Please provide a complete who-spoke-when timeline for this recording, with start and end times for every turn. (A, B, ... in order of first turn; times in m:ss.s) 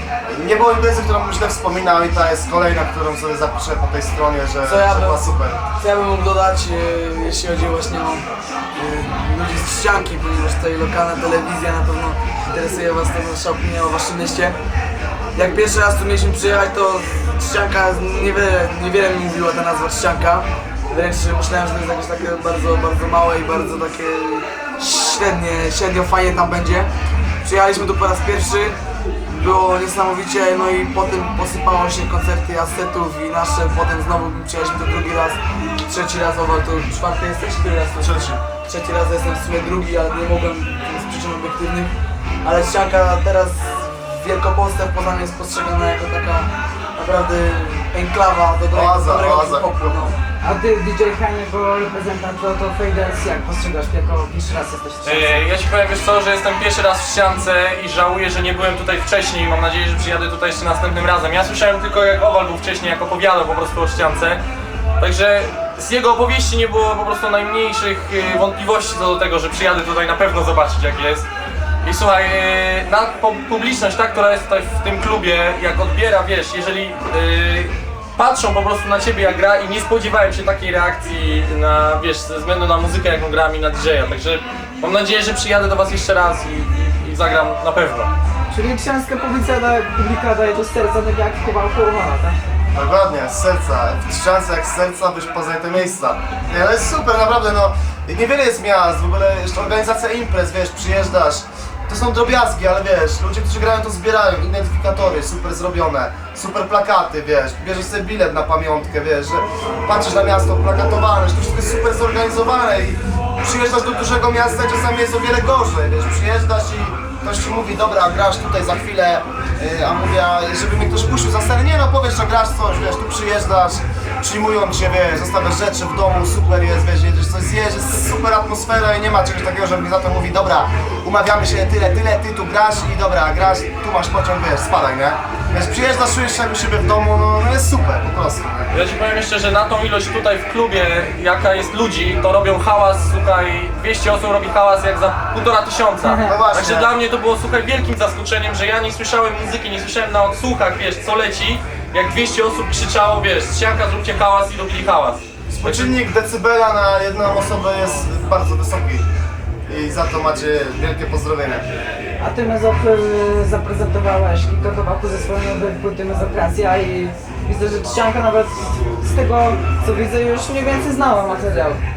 0:00.3-0:05.6 A
0:04.6-0:14.6 B
0:15.3-0:26.9 B
0:27.4-0:28.8 B
0:29.3-0:50.2 B
0:38.0-0:38.4 A
0:48.7-0:49.9 A
0:50.4-0:55.4 C
0:55.0-1:04.4 D
1:05.0-1:11.3 D
1:11.8-1:28.1 D
1:28.5-1:32.4 C
1:32.7-2:18.7 A
2:18.7-2:36.0 D
2:26.0-2:26.4 C
2:26.2-2:26.9 A
2:35.5-2:39.0 A
2:39.7-2:41.6 A
2:42.2-2:51.8 C